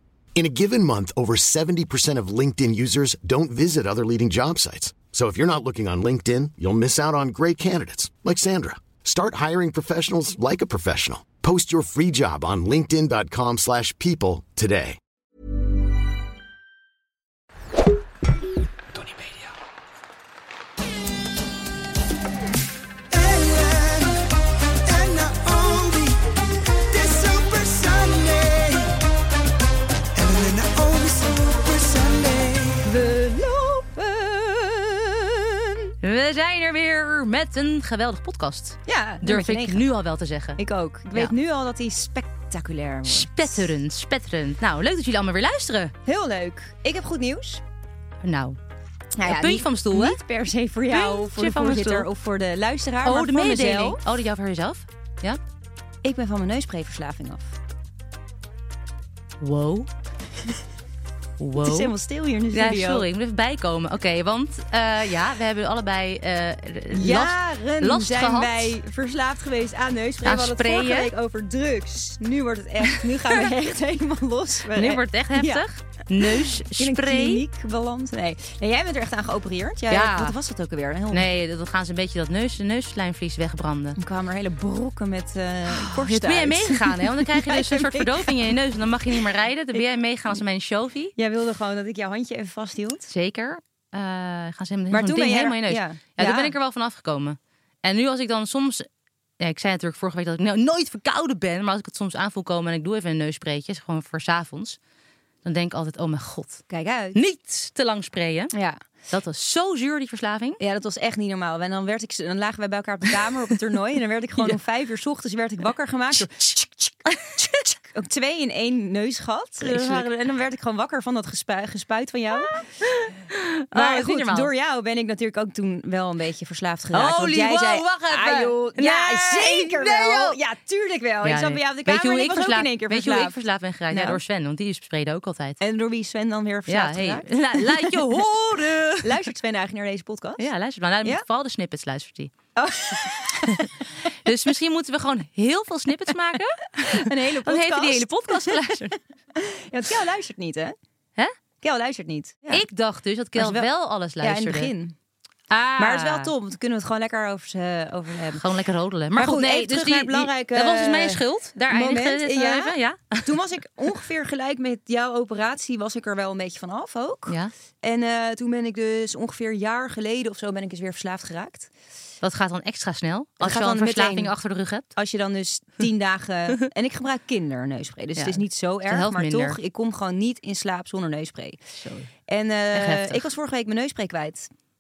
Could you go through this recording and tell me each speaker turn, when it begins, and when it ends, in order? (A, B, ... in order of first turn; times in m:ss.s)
0:00.3-0:15.0 A
0:23.1-0:24.2 B
0:24.9-0:26.2 B
0:26.9-0:28.9 B
0:30.1-0:32.9 B
0:32.8-0:35.9 C
0:36.0-0:40.6 D
0:38.9-0:39.8 C
0:40.6-0:43.6 C
0:43.0-0:45.9 D
0:46.0-0:47.6 C
0:48.2-0:48.6 D
0:49.2-0:54.0 C
0:49.3-0:50.2 D
0:50.9-0:52.1 D
0:53.0-0:55.4 D
0:56.0-0:57.5 C
0:59.4-0:59.9 D
1:01.4-1:01.9 D
1:01.6-1:03.0 C
1:02.5-1:08.7 D
1:06.9-1:15.6 C
1:10.2-1:11.1 D
1:14.7-1:17.4 D
1:16.2-1:21.3 C
1:19.9-1:20.4 D
1:21.1-1:24.0 D
1:24.0-1:28.5 C
1:25.7-1:31.1 D
1:31.2-1:33.1 C
1:33.1-1:38.9 D
1:34.9-1:36.5 C
1:39.4-1:44.8 D
1:45.4-1:48.5 D
1:46.7-1:47.2 C
1:48.5-1:48.8 C
1:49.1-1:50.6 D
1:50.6-1:56.9 C
1:56.1-1:57.7 D
1:57.8-2:02.6 C
1:59.6-2:00.0 D
2:02.3-2:04.5 D
2:03.7-2:13.3 C
2:06.9-2:10.4 D
2:11.2-2:15.6 D
2:13.9-2:14.2 C
2:15.6-2:18.2 C
2:16.7-2:19.2 D
2:19.0-2:20.4 C
2:20.4-2:22.3 D
2:22.6-2:23.7 C
2:23.3-2:23.7 D
2:24.2-2:29.0 D
2:26.8-2:28.8 C
2:29.3-2:30.7 C
2:31.6-2:32.6 C
2:32.5-2:34.7 D
2:33.4-2:33.7 C
2:34.2-2:34.9 C
2:35.5-2:36.3 D
2:35.8-2:38.4 C
2:38.3-2:43.4 D
2:39.1-2:51.7 C
2:47.3-2:47.5 D
2:52.2-2:54.9 D
2:53.4-2:54.3 C
2:55.0-3:01.6 C
2:58.2-2:59.6 D
3:01.8-3:02.1 D
3:02.3-3:04.5 C
3:02.7-3:03.2 D